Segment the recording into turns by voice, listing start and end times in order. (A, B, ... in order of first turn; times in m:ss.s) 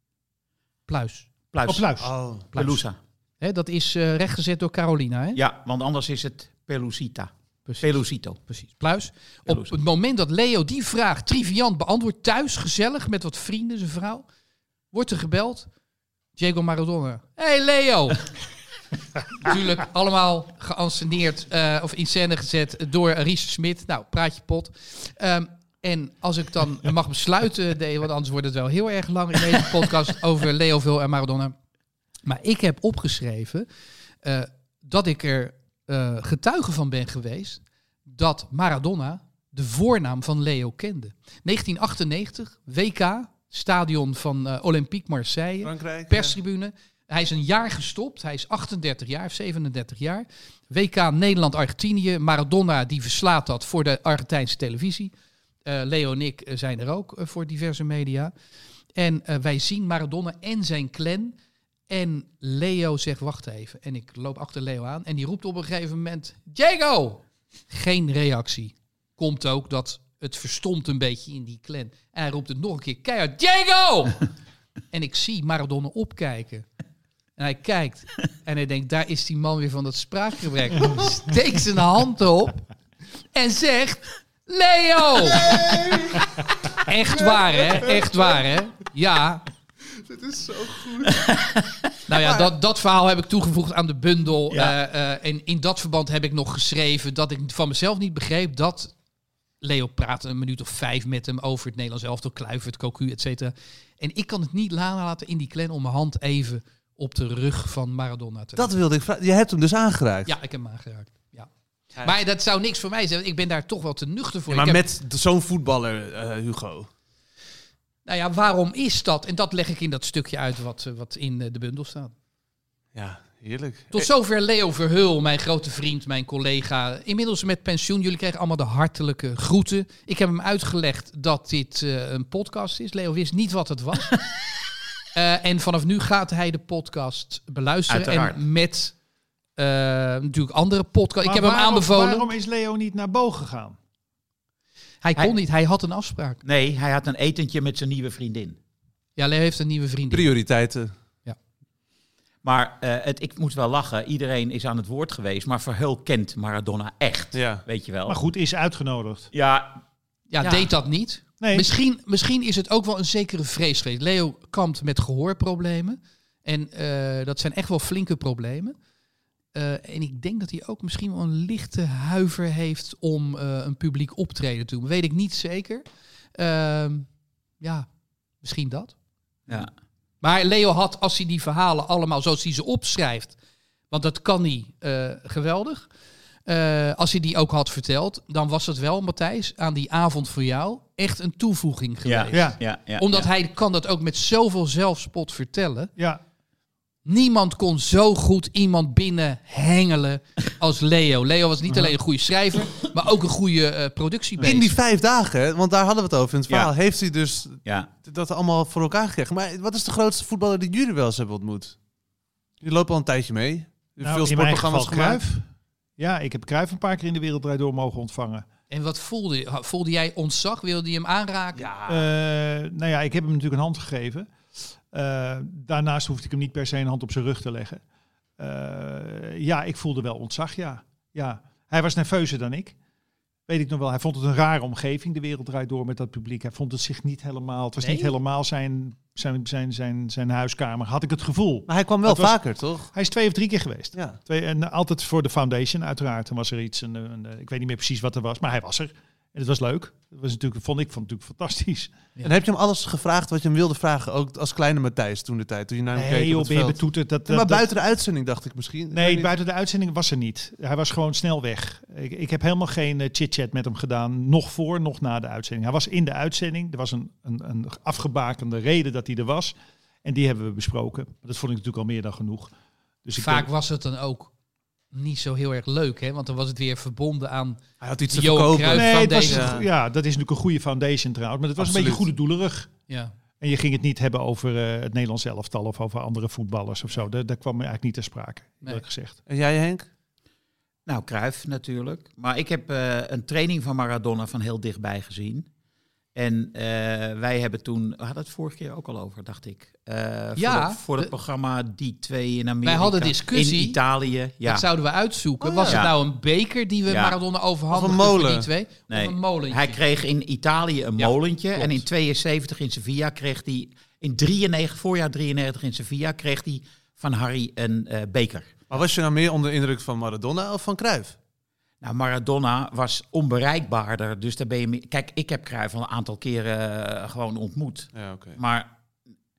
0:00.9-0:01.3 A
0:01.5-0:03.0 B
0:01.7-0:02.1 C
0:02.0-0:02.4 D
0:02.5-0:02.8 A
0:03.4-0:05.4 A
0:05.4-0:08.4 B
0:07.7-0:14.2 A
0:09.5-0:09.8 B
0:14.9-0:15.7 A
0:16.4-0:18.3 A
0:19.3-0:31.6 A
0:32.2-0:33.7 A
0:34.2-0:55.1 A
0:45.6-0:46.4 D
0:55.7-0:58.3 A
0:59.0-1:01.3 A
1:01.9-1:14.3 A
1:14.9-1:16.7 A
1:17.4-1:22.6 A
1:23.3-1:25.4 A
1:25.3-1:28.4 D
1:26.9-1:29.4 A
1:30.0-1:31.4 D
1:31.3-1:31.8 B
1:32.1-1:39.0 A
1:32.2-1:32.5 D
1:34.5-1:34.8 B
1:39.6-1:48.7 A
1:48.6-1:50.3 D
1:50.3-1:54.8 A
1:54.5-1:56.9 D
1:58.0-2:02.1 A
2:03.0-2:04.1 D
2:03.9-2:14.3 A
2:15.1-2:19.0 A
2:17.9-2:18.4 B
2:19.6-2:22.3 A
2:21.2-2:23.8 C
2:25.0-2:26.4 A
2:26.4-2:28.6 B
2:29.2-2:30.3 A
2:30.1-2:30.9 D
2:32.4-2:38.2 B
2:37.3-2:37.6 D
2:38.1-2:39.3 C
2:39.3-2:39.8 B
2:40.3-2:48.8 A
2:40.4-2:40.7 B
2:41.4-2:41.7 C
2:49.5-2:57.1 A
2:57.6-2:57.9 A
2:58.4-2:58.9 A
3:00.2-3:03.4 A
3:03.9-3:05.9 A
3:06.5-3:15.9 A
3:12.0-3:13.3 B
3:12.3-3:12.6 C
3:17.0-3:24.7 A
3:24.4-3:31.8 D
3:32.6-3:35.2 D
3:34.0-3:38.5 C
3:38.7-3:41.7 A
3:41.6-3:42.1 D
3:41.9-3:47.8 C
3:48.4-3:52.8 C
3:53.5-4:02.4 C
3:57.8-3:58.1 A
4:01.7-4:02.9 D
4:02.9-4:11.9 C
4:12.2-4:19.3 D
4:16.0-4:17.7 C
4:18.9-4:32.5 C
4:33.0-4:33.5 C
4:33.2-4:34.3 A
4:34.9-4:39.6 A
4:37.8-4:39.7 D
4:38.7-4:42.7 C
4:41.6-4:42.0 D
4:42.9-4:43.1 A
4:43.4-4:49.2 C
4:49.3-4:49.9 D
4:50.9-4:55.5 B
4:56.2-5:04.6 B
5:00.4-5:01.1 A
5:02.6-5:03.8 A
5:04.4-5:09.8 A
5:05.4-5:05.8 D
5:05.7-5:06.0 B
5:06.9-5:07.2 B
5:07.7-5:08.5 D
5:08.9-5:18.7 B
5:18.7-5:21.2 D
5:21.8-5:28.7 B
5:28.0-5:28.4 D